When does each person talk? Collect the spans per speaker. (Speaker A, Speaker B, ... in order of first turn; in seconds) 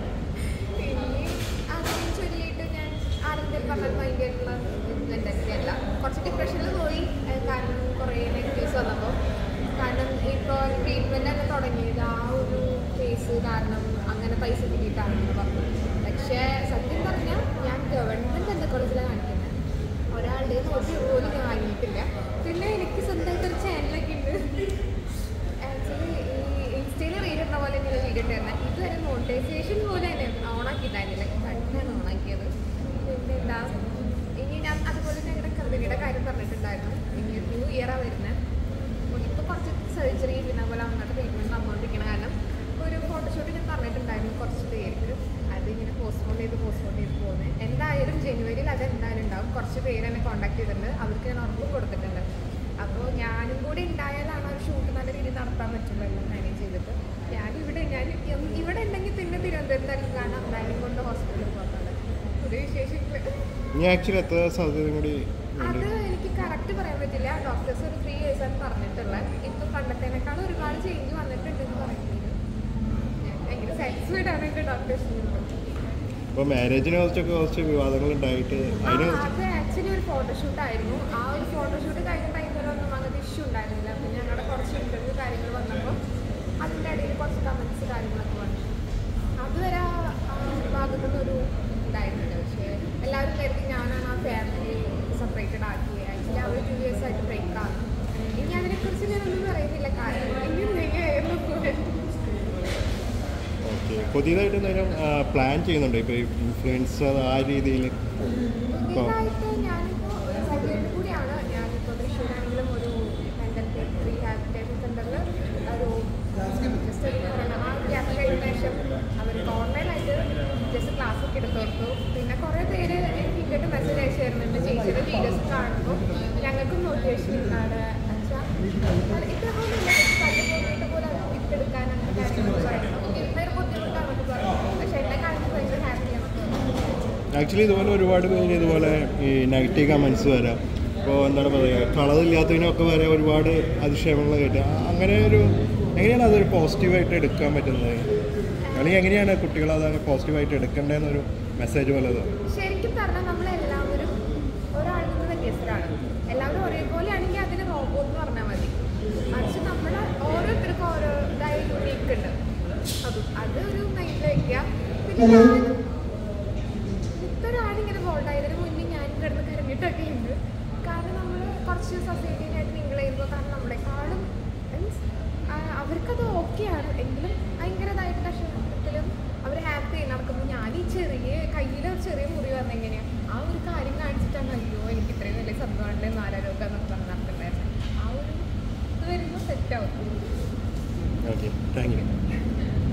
Speaker A: 0.4-9.2, 9.8-19.5, 20.1-24.6, 25.6-38.4, 39.1-52.2, 52.8-63.3, 65.6-72.3, 73.2-75.5, 78.8-86.0, 86.6-88.7, 89.4-97.8, 98.3-102.0, 108.7-128.5, 129.1-136.6, 148.6-149.0, 152.5-154.1, 154.7-162.3, 163.0-165.8, 167.1-188.4, 189.0-190.1, 191.8-192.1
Speaker B: 63.7-65.9, 76.3-79.3, 103.7-108.0, 137.3-148.1, 148.7-152.3, 191.2-192.0